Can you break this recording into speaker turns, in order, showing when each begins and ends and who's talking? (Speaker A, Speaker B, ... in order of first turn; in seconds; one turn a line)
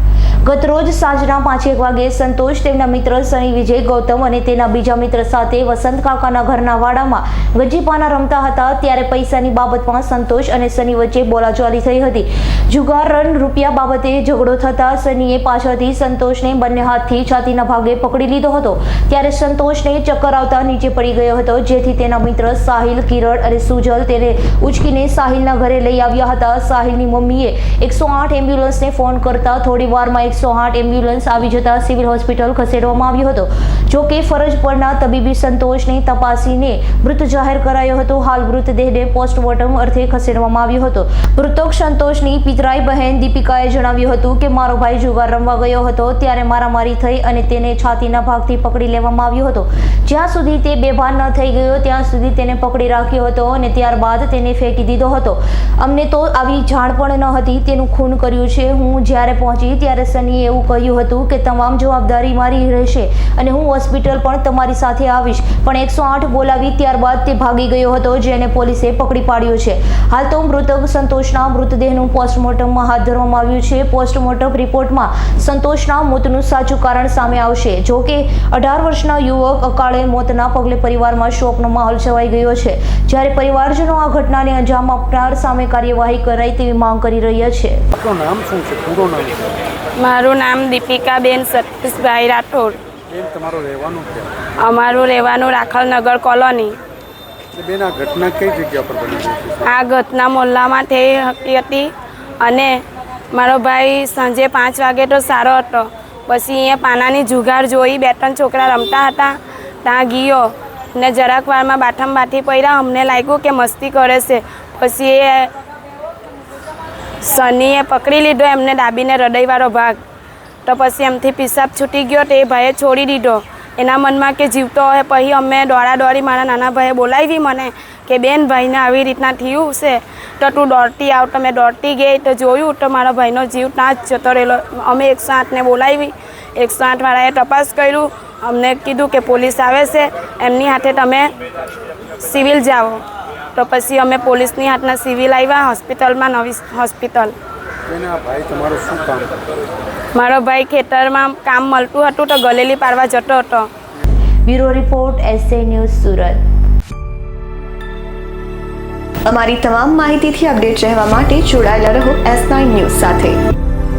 Speaker A: 0.5-87.8
Speaker B: 87.9-89.6
Speaker C: 90.0-92.8
Speaker B: 93.1-94.5
Speaker C: 94.6-96.8
Speaker B: 97.5-99.7
Speaker C: 99.7-115.5
Speaker C: 117.2-120.0
Speaker C: 120.7-141.3
Speaker C: 142.2-143.0
Speaker C: 143.6-147.3
Speaker B: 147.9-149.4
Speaker C: 150.2-153.7
Speaker A: 154.5-156.4
Speaker D: 159.3-163.4